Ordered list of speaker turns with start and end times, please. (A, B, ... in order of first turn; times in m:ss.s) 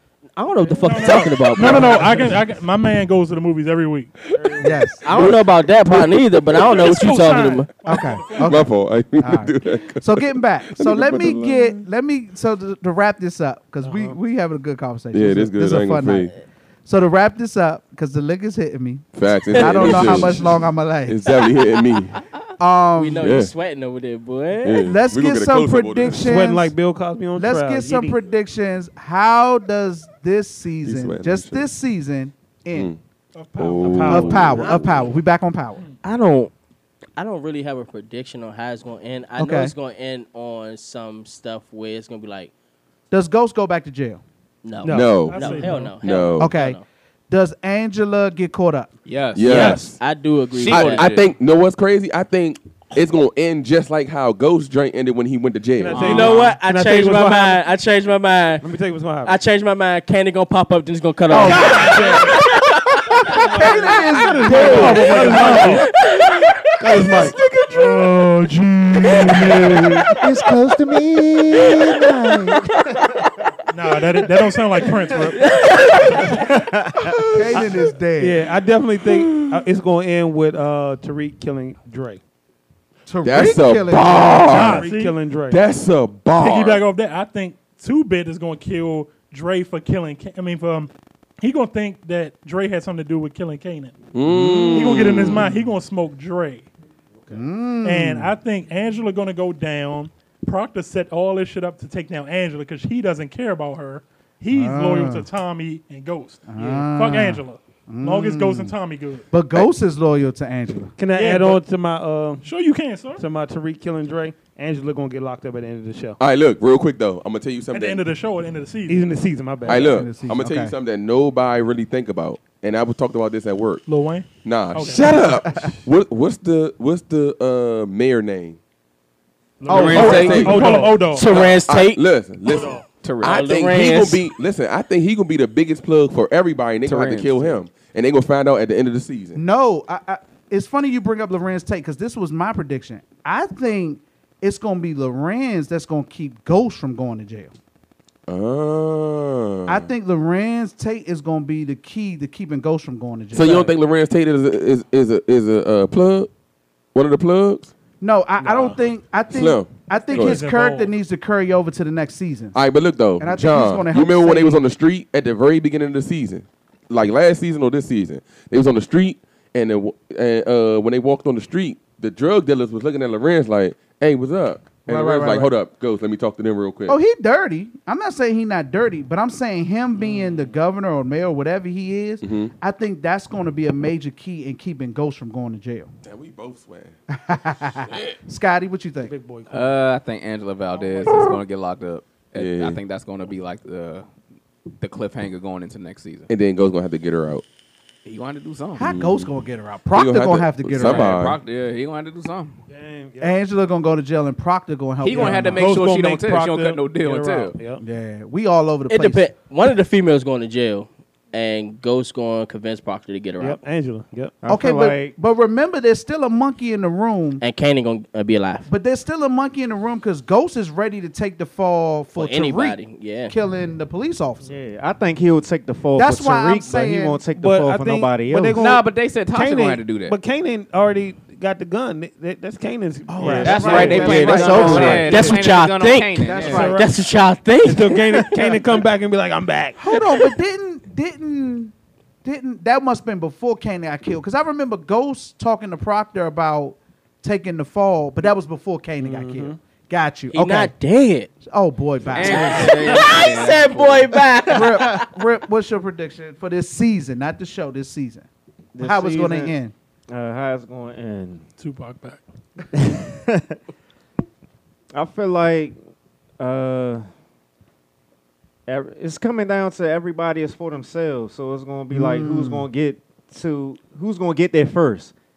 0:00.4-0:02.3 A
0:00.6-0:04.2 B
0:01.6-0:02.2 C
0:01.6-0:01.9 D
0:04.2-0:04.6 D
0:04.3-0:04.9 E
0:04.6-0:05.3 C
0:05.0-0:07.7 A
0:05.1-0:07.1 D
0:06.6-0:08.6 B
0:07.9-0:16.3 C
0:08.4-0:11.8 D
0:13.8-0:14.2 E
0:15.1-0:16.3 D
0:16.9-0:21.3 C
0:19.1-0:22.2 D
0:19.5-0:20.5 A
0:21.3-0:22.0 A
0:22.6-0:23.4 C
0:23.0-0:24.9 A
0:23.2-0:23.5 D
0:24.6-0:26.3 D
0:24.8-0:26.7 C
0:26.1-0:28.2 E
0:27.4-0:32.9 C
0:30.8-0:31.7 D
0:32.7-0:33.0 D
0:33.4-0:34.2 B
0:33.6-0:35.1 D
0:33.8-0:34.7 E
0:34.1-0:35.8 C
0:36.0-0:36.5 A
0:37.2-0:42.5 A
0:39.4-0:39.7 C
0:43.1-0:44.2 C
0:44.6-0:46.8 A
0:44.8-0:45.9 E
0:44.8-0:46.5 D
0:45.2-0:45.9 B
0:46.4-0:46.8 C
0:47.3-0:48.9 C
0:49.1-0:49.9 F
0:49.3-0:50.0 D
0:49.4-0:51.1 A
0:50.6-0:51.3 F
0:50.7-0:56.3 D
0:55.8-0:57.6 E
0:55.9-0:56.5 F
0:56.0-0:58.7 A
0:58.6-0:59.4 E
0:59.2-1:08.1 A
1:01.3-1:02.4 E
1:03.5-1:05.6 C
1:03.7-1:05.9 E
1:04.5-1:05.9 B
1:06.8-1:07.4 E
1:07.7-1:10.1 B
1:09.0-1:10.2 A
1:10.2-1:12.7 G
1:11.6-1:13.3 A
1:13.7-1:15.4 B
1:15.3-1:16.5 A
1:16.5-1:17.2 G
1:17.3-1:18.4 C
1:18.2-1:22.2 E
1:19.1-1:19.6 D
1:23.1-1:24.8 C
1:23.2-1:24.9 D
1:24.5-1:25.6 E
1:24.5-1:25.2 B
1:25.5-1:26.8 D
1:26.4-1:33.9 B
1:34.1-1:35.5 D
1:34.4-1:35.4 C
1:34.7-1:36.7 B
1:37.3-1:38.3 C
1:37.8-1:49.3 B
1:44.5-1:45.2 C
1:46.5-1:48.8 C
1:46.6-1:46.8 E
1:49.3-1:50.9 C
1:51.0-1:52.5 E
1:51.1-1:51.6 B
1:52.4-1:53.2 B
1:53.2-1:56.2 E
1:56.2-1:58.0 D
1:57.7-1:59.0 B
1:58.9-2:00.1 E
1:59.7-2:00.8 C
1:59.7-2:03.8 D
2:03.9-2:05.2 B
2:04.4-2:08.6 D
2:09.6-2:11.2 E
2:09.7-2:10.4 C
2:09.7-2:10.8 F
2:09.9-2:19.4 D
2:09.9-2:11.2 B
2:11.1-2:12.0 A
2:12.5-2:12.8 E
2:12.9-2:14.0 F
2:13.2-2:14.2 A
2:16.8-2:17.6 F
2:19.4-2:27.5 C
2:28.3-2:29.9 D
2:29.7-2:33.7 C
2:33.3-2:36.3 D
2:36.9-2:37.7 D
2:38.0-2:42.6 C
2:38.4-2:38.8 E
2:39.3-2:40.4 D
2:40.1-2:40.9 B
2:42.5-2:57.0 D
2:43.2-2:44.6 C
2:54.9-2:55.5 C
2:56.9-3:05.9 C
3:00.0-3:00.6 E
3:02.2-3:02.5 D
3:06.0-3:06.9 D
3:07.1-3:09.1 C
3:07.9-3:08.2 D
3:09.0-3:09.8 E
3:09.5-3:14.1 F
3:12.3-3:12.8 D
3:14.8-3:16.3 F
3:16.3-3:17.4 D
3:18.0-3:18.9 F
3:18.8-3:21.2 C
3:18.8-3:19.3 D
3:19.9-3:21.4 D
3:20.8-3:22.6 F
3:22.7-3:23.4 E
3:23.2-3:25.7 C
3:25.0-3:27.7 F
3:25.1-3:27.8 E
3:27.8-3:29.3 C
3:28.9-3:33.6 A
3:33.4-3:34.4 E
3:34.4-3:35.2 G
3:34.5-3:37.4 C
3:37.4-3:38.7 A
3:38.7-3:44.5 C
3:42.2-3:43.3 A
3:44.4-3:48.8 G
3:46.0-3:47.2 C
3:47.3-3:55.3 E
3:48.6-3:50.2 F
3:53.1-3:55.4 C
3:53.2-3:55.2 G
3:53.3-3:56.8 F
3:54.9-3:58.6 A
3:56.2-3:56.8 C
3:56.4-3:56.9 E
3:57.6-3:59.9 E
3:58.3-3:58.7 F
3:59.8-4:01.7 C
4:02.2-4:10.7 C
4:09.0-4:09.6 E
4:10.3-4:11.3 A
4:11.4-4:12.8 C
4:12.0-4:14.2 F
4:12.2-4:15.1 A
4:14.5-4:18.3 C
4:18.7-4:19.5 G
4:18.8-4:19.7 C
4:20.1-4:21.4 G
4:21.6-4:22.2 B
4:22.7-4:23.6 G
4:24.9-4:25.8 G
4:26.4-4:27.1 G
4:28.7-4:35.1 G
4:31.9-4:32.7 C